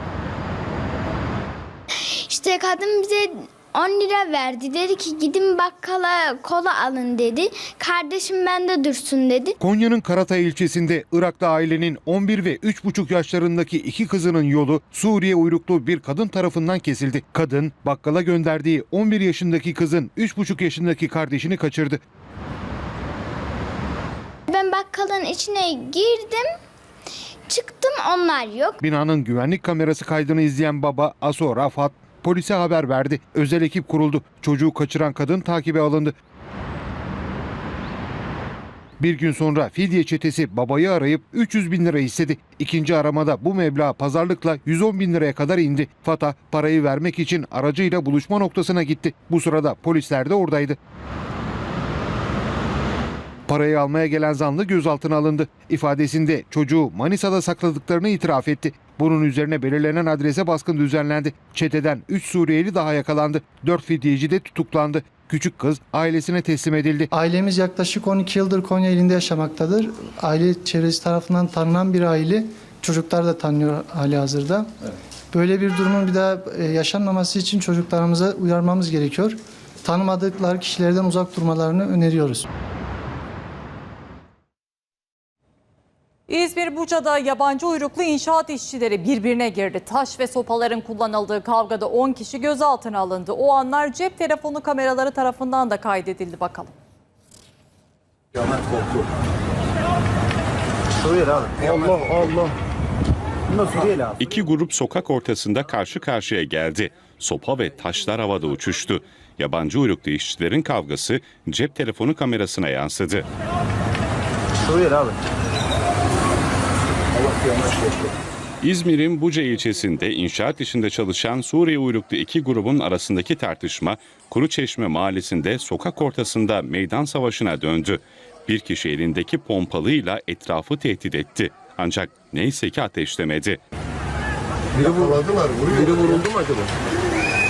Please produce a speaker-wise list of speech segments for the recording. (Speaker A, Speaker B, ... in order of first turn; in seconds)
Speaker A: 2.2-9.5, 24.5-26.5, 27.5-28.8
Speaker B: 9.6-22.0, 28.8-36.1, 39.0-50.8, 53.5-67.1
Speaker C: 67.1-74.7, 75.3-82.5
Speaker D: 86.3-96.7
Speaker E: 101.0-102.5, 103.5-104.2, 114.7-115.1
Speaker F: 104.2-113.3, 118.6-133.6